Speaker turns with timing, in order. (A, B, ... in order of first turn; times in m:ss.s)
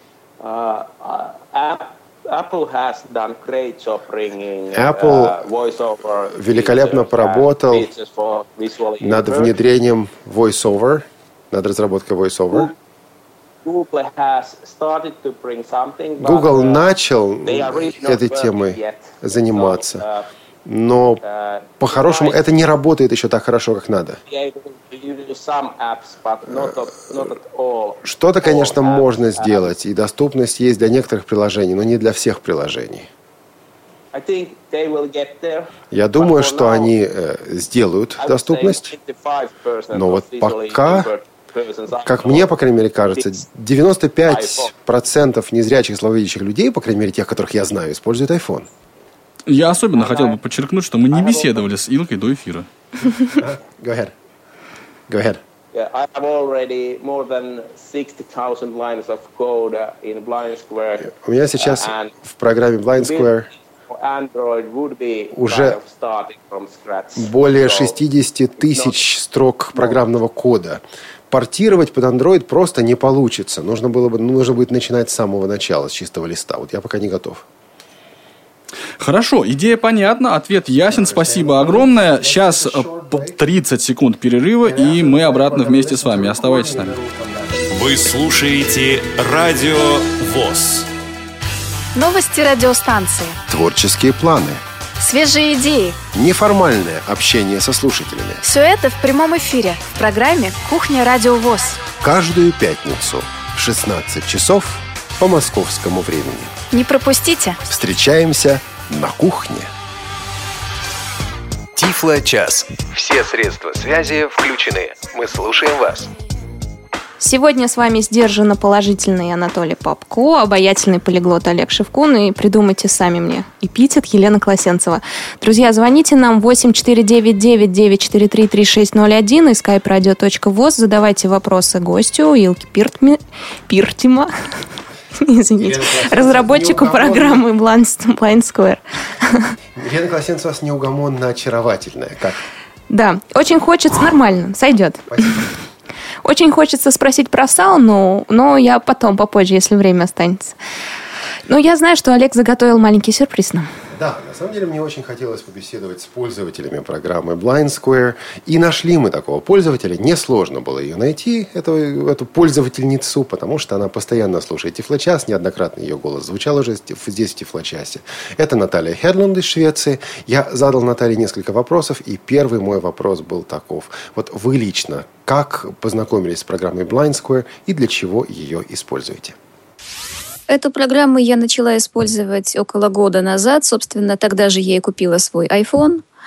0:00.4-0:09.5 A
0:04.7-0:05.4 B
0:06.3-0:07.9 B
0:09.0-0:12.7 B
0:13.6-0:16.9 A
0:16.2-0:20.0 B
0:17.4-0:20.3 A
0:20.7-0:21.2 B
0:21.2-0:22.4 A
0:21.8-0:24.2 B
0:24.3-0:29.7 A
0:28.0-0:33.1 B
0:34.1-0:36.9 A
0:35.9-0:38.9 B
0:38.2-0:42.5 A
0:39.9-0:41.1 B
0:42.0-0:48.7 B
0:44.3-0:44.7 A
0:49.5-0:53.1 C
0:50.0-0:50.4 A
0:51.1-0:51.7 A
0:53.4-0:54.1 B
0:55.1-0:55.4 B
0:55.7-1:02.1 A
1:01.0-1:03.5 B
1:03.0-1:03.3 A
1:03.9-1:08.0 A
1:05.3-1:05.8 B
1:07.2-1:17.4 B
1:08.6-1:09.0 A
1:19.0-1:27.0 C
1:20.9-1:23.4 B
1:24.6-1:28.2 B
1:27.7-1:30.9 D
1:32.0-1:33.4 E
1:33.5-1:34.6 B
1:35.0-1:36.0 E
1:36.1-1:38.4 B
1:38.4-1:41.8 E
1:42.0-1:46.6 B
1:46.7-1:47.6 E
1:47.7-1:49.7 B
1:51.8-1:56.1 F
1:57.2-2:14.3 G
2:15.2-2:19.5 G
2:15.6-2:17.4 B
2:19.8-2:22.4 B
2:22.9-2:25.5 G
2:25.1-2:25.5 B
2:26.2-2:30.6 G
2:31.5-2:33.7 G
2:33.9-2:59.4 B
3:00.5-3:06.0 H